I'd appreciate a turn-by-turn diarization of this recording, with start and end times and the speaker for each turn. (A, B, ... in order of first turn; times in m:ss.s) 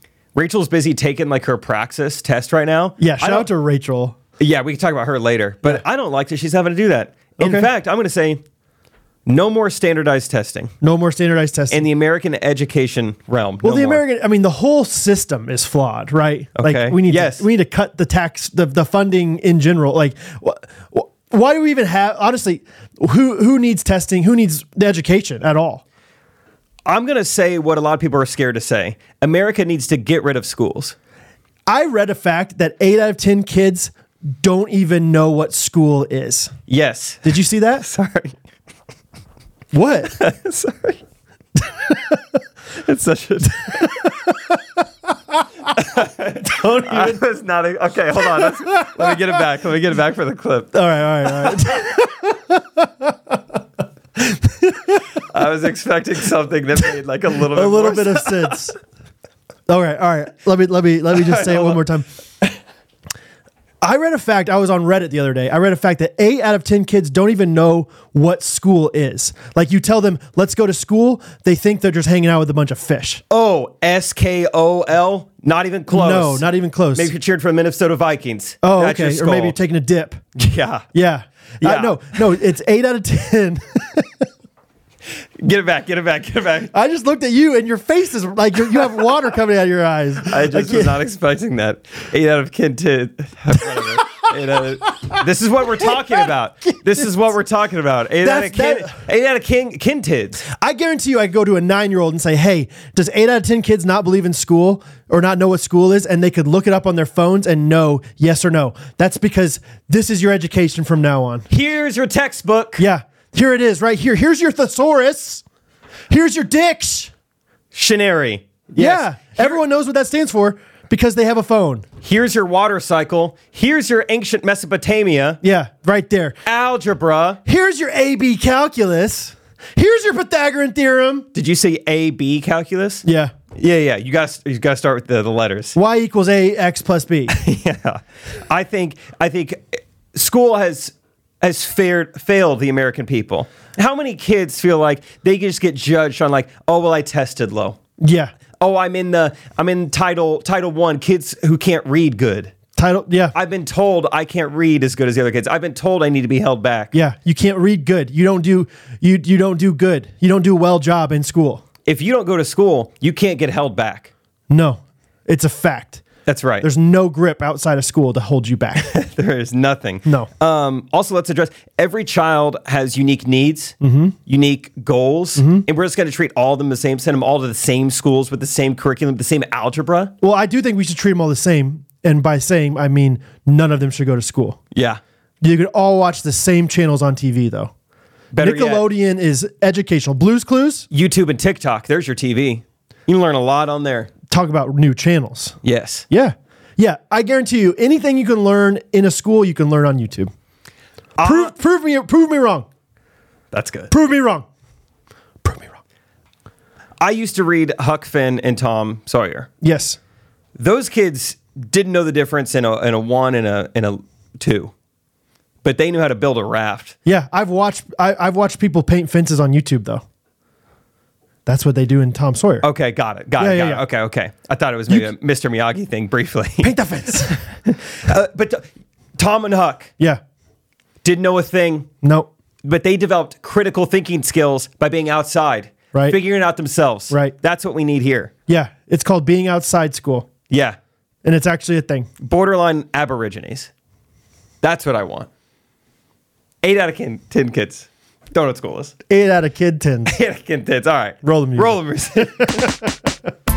0:00.3-0:03.5 A
0:03.0-0:04.2 B
0:04.4-0:08.4 A
0:07.4-0:07.7 B
0:09.2-0:10.7 A
0:10.8-0:11.8 B
0:11.7-0:14.0 A
0:13.6-0:25.8 B
0:16.6-0:17.4 A
0:26.8-0:30.9 A
0:31.7-0:36.5 B
0:36.7-0:38.4 A
0:37.2-0:37.8 B
0:39.7-0:40.2 B
0:40.2-0:41.0 A
0:41.6-0:42.2 B
0:42.8-0:43.9 A
0:43.7-0:44.6 B
0:45.3-0:47.2 B
0:45.7-0:50.7 A
0:48.2-0:49.2 B
0:50.7-0:53.4 B
0:54.2-0:55.0 B
0:55.2-0:58.5 A
0:57.4-0:58.8 B
0:59.7-1:02.1 B
1:01.1-1:01.8 A
1:03.8-1:13.2 B
1:13.3-1:19.6 A
1:15.9-1:17.1 B
1:18.6-1:20.2 B
1:20.4-1:20.8 A
1:20.9-1:24.3 B
1:21.6-1:22.2 A
1:25.4-1:26.7 A
1:26.7-1:31.0 B
1:30.3-1:40.4 A
1:33.7-1:34.1 B
1:34.8-1:35.2 B
1:38.2-1:39.0 B
1:40.4-1:51.5 B
1:51.5-1:52.8 A
1:52.8-1:55.4 B
1:56.1-1:57.1 B
1:57.7-1:59.6 A
1:58.7-2:01.8 B
2:02.0-2:05.4 A
2:05.4-2:06.4 B
2:06.4-2:07.4 A
2:07.4-2:11.3 B
2:11.3-2:15.8 A
2:13.0-2:13.3 B
2:15.7-2:17.3 B
2:17.3-2:27.8 A
2:28.0-2:28.3 B
2:28.6-2:32.5 A
2:32.8-2:33.3 B
2:33.3-2:36.9 A
2:36.9-2:41.6 B
2:41.8-2:44.1 A
2:44.5-2:46.0 B
2:46.2-2:46.7 A
2:46.6-2:48.9 B
2:48.8-3:00.1 A
2:53.8-2:54.2 B
2:55.4-2:55.6 B
3:00.2-3:04.6 B
3:04.7-3:05.0 A
3:05.4-3:07.7 B
3:08.3-3:08.9 A
3:08.4-3:10.9 B
3:10.9-3:14.1 A
3:14.3-3:15.6 B
3:15.6-3:16.0 A
3:16.1-3:20.3 B
3:21.2-3:21.5 A
3:21.2-3:22.7 B
3:23.5-3:23.9 A
3:23.9-3:24.5 B
3:25.4-3:25.8 B
3:27.0-3:29.5 A
3:29.6-3:30.0 B
3:30.6-3:34.7 A
3:35.6-3:37.0 A
3:37.0-3:40.0 B
3:41.4-3:42.7 B
3:42.6-3:46.7 A
3:43.4-3:43.8 B
3:46.6-3:47.3 B
3:47.2-3:49.9 A
3:51.0-3:51.9 A
3:52.0-3:52.3 B
3:52.6-3:58.3 A
3:57.1-3:57.3 B
3:58.5-4:00.3 B
4:00.5-4:00.8 A
4:01.2-4:02.1 B
4:02.2-4:03.7 A
4:04.6-4:05.3 A
4:06.6-4:08.9 A
4:09.1-4:10.1 B
4:10.1-4:12.7 A
4:11.2-4:12.9 B